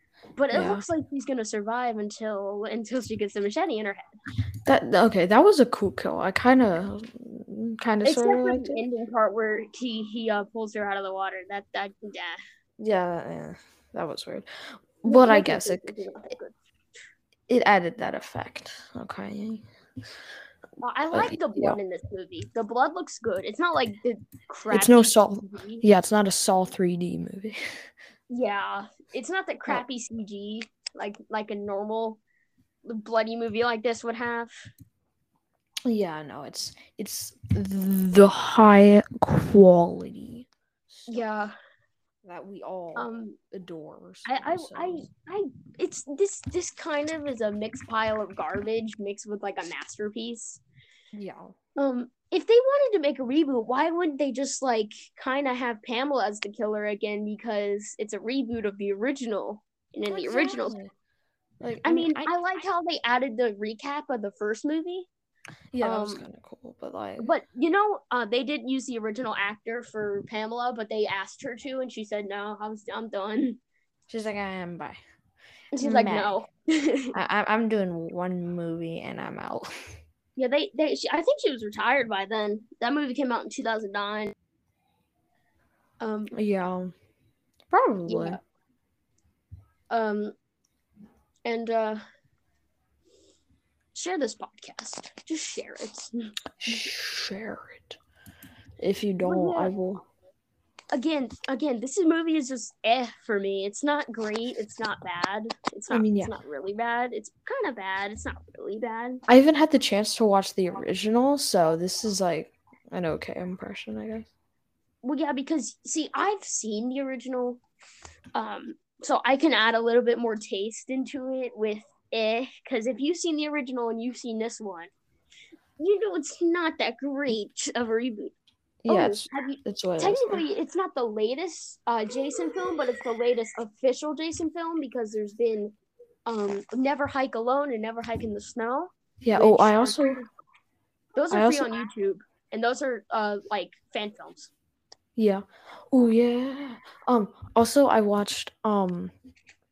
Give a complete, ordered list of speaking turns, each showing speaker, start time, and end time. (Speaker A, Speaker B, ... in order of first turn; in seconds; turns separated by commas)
Speaker A: 0.3-4.1, Speaker B: 0.5-0.8, Speaker B: 4.7-8.8, Speaker A: 8.0-12.4, Speaker B: 12.8-15.9, Speaker A: 15.1-16.5, Speaker B: 17.5-19.6, Speaker A: 20.8-25.8, Speaker B: 21.1-21.8, Speaker B: 24.7-27.6, Speaker A: 28.3-32.2, Speaker A: 32.8-34.5, Speaker B: 35.9-41.3, Speaker A: 41.1-41.5, Speaker B: 42.2-45.1, Speaker A: 43.0-43.4, Speaker A: 44.2-50.6, Speaker B: 51.1-51.5, Speaker A: 51.8-60.8, Speaker B: 60.1-60.9, Speaker B: 61.6-62.3, Speaker A: 61.8-65.1, Speaker B: 65.7-67.3, Speaker A: 65.8-66.2, Speaker A: 67.2-73.6, Speaker B: 74.1-75.0, Speaker A: 75.7-77.1, Speaker B: 75.8-76.4, Speaker B: 77.1-79.9, Speaker A: 80.3-84.3, Speaker A: 86.0-86.3, Speaker B: 86.3-86.9, Speaker B: 87.7-88.4, Speaker A: 88.1-88.4, Speaker A: 89.9-90.3, Speaker A: 91.4-92.0, Speaker A: 93.9-96.1, Speaker B: 96.6-98.0, Speaker B: 98.8-100.0, Speaker A: 99.2-99.7, Speaker A: 100.9-109.2, Speaker B: 105.9-106.3, Speaker B: 109.3-114.3, Speaker A: 115.0-117.6, Speaker A: 118.3-124.9, Speaker A: 125.8-128.3, Speaker B: 128.8-130.4, Speaker A: 128.9-140.2, Speaker B: 139.2-140.2, Speaker A: 141.2-144.5, Speaker B: 141.3-141.8, Speaker B: 145.2-149.1